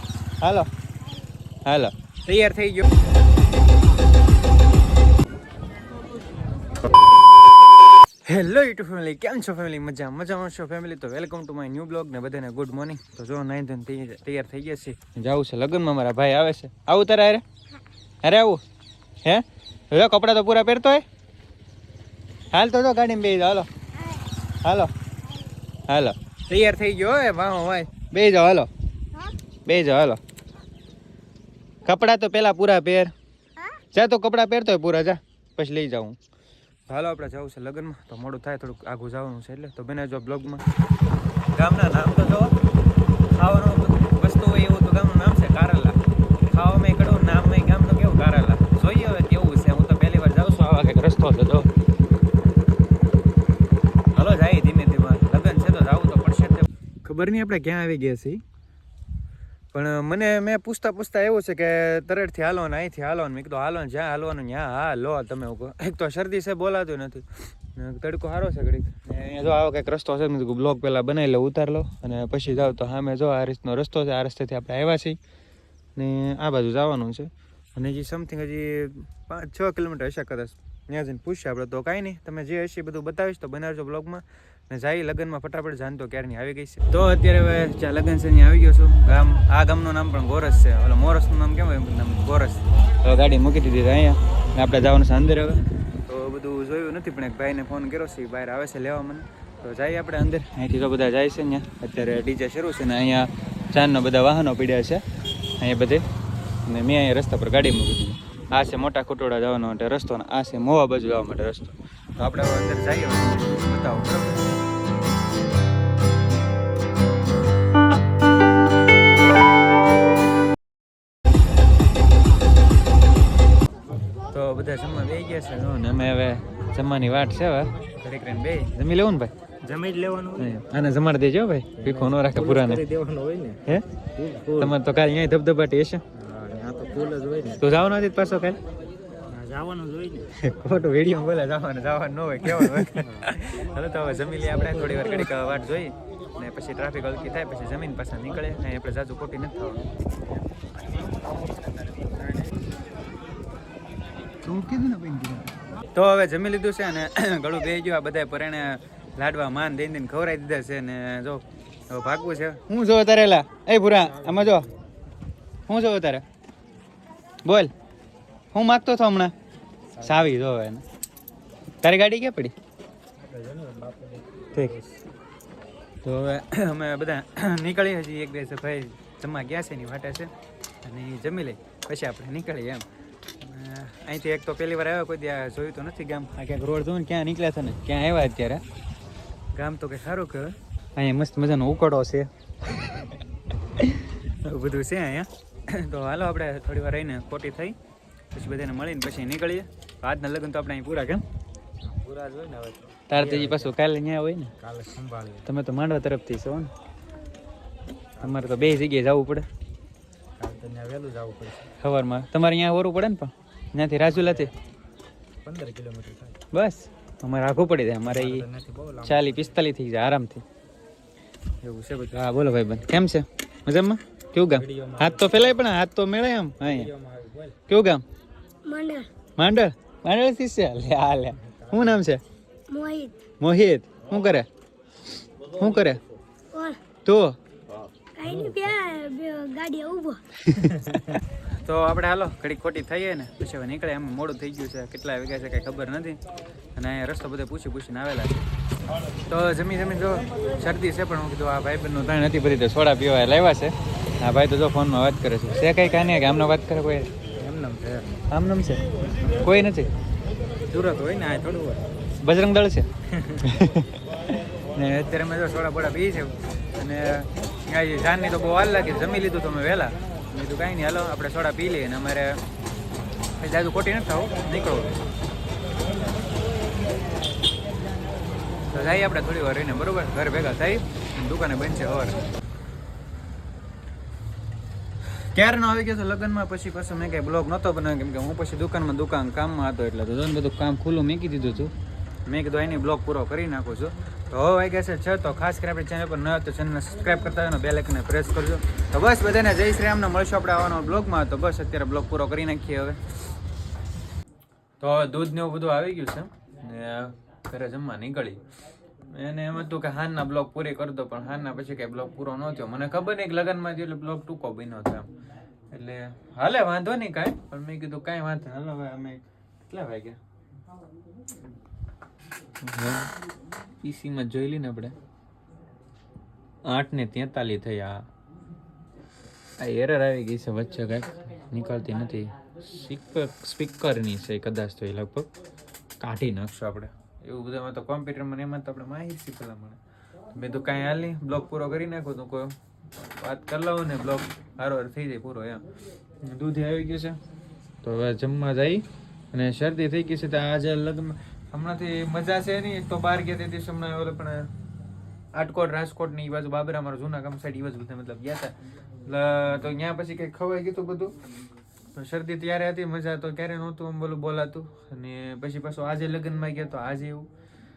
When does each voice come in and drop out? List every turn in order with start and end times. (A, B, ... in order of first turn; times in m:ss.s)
0:00.4-0:00.7 A
0:01.7-0:02.9 A
0:08.3-0:17.4 A
0:18.2-0:18.6 A
0:19.2-0:21.0 A
0:22.5-0:23.7 A
0:24.6-0:24.9 A
0:25.9-0:28.7 A
0:29.7-0:30.2 A
0:31.8-0:33.1 A
0:33.9-0:36.2 A
0:36.9-0:40.6 A
0:41.5-0:42.6 A
0:43.3-0:51.7 A
0:54.1-0:58.4 A
0:59.7-1:15.2 A
1:16.0-1:45.0 A
1:45.6-1:46.0 A
1:46.6-1:54.6 A
2:04.3-2:09.3 A
2:09.6-2:10.6 B
2:10.4-2:12.8 A
2:11.8-2:14.8 B
2:14.6-2:16.0 A
2:16.1-2:17.6 B
2:17.6-2:18.6 A
2:19.3-2:20.3 B
2:20.4-2:29.9 A
2:22.9-2:23.3 B
2:24.9-2:25.3 B
2:34.4-2:44.7 A
2:44.0-2:44.9 B
2:45.7-2:46.2 A
2:47.4-2:47.7 A
2:48.5-2:49.3 A
2:50.0-2:50.3 B
2:50.0-2:50.8 A
2:51.8-2:52.6 A
2:53.2-2:55.0 B
2:56.0-3:00.3 A
3:00.8-3:02.8 A
3:03.4-3:08.6 A
3:09.5-3:12.3 A
3:13.8-3:17.8 A
3:18.3-3:21.2 A
3:21.8-3:23.7 B
3:23.1-3:24.5 A
3:24.6-3:25.5 B
3:25.4-3:26.7 A
3:28.2-3:28.9 B
3:28.2-3:29.5 A
3:30.4-3:31.7 B
3:31.8-3:34.5 A
3:34.1-3:34.5 B
3:35.4-3:36.4 B
3:36.5-3:38.5 A
3:38.0-3:39.6 B
3:39.0-3:40.4 A
3:41.6-3:46.9 A
3:44.5-3:45.6 B
3:46.6-3:47.6 B
3:47.7-3:48.0 A
3:48.6-3:49.1 C
3:49.4-3:52.2 A
3:51.4-3:52.0 B
3:52.7-3:53.3 C
3:53.4-3:54.5 A
3:55.5-3:56.0 A
3:56.5-3:56.8 C
3:57.0-3:57.4 A
3:58.2-4:00.2 C
3:58.2-3:58.6 B
4:00.5-4:06.2 A
4:00.6-4:01.2 B
4:06.8-4:08.4 A
4:09.3-4:17.1 A
4:17.4-4:18.1 B
4:18.3-4:19.9 A
4:20.6-4:21.9 B
4:22.2-4:22.9 A
4:23.1-4:23.5 B
4:23.4-4:32.4 A
4:33.4-4:35.0 A
4:38.7-4:42.2 A
4:45.3-4:51.7 A
4:52.2-5:03.0 A
5:04.8-5:08.4 A
5:09.1-5:15.1 A
5:15.7-5:20.2 A
5:22.6-5:23.1 A
5:23.8-5:25.0 A
5:26.7-5:28.1 A
5:29.6-5:35.3 A
5:36.0-5:39.8 A
5:40.3-5:45.6 A
5:46.2-5:47.2 A
5:47.8-5:54.5 A
5:55.3-6:01.1 A
6:01.9-6:07.3 A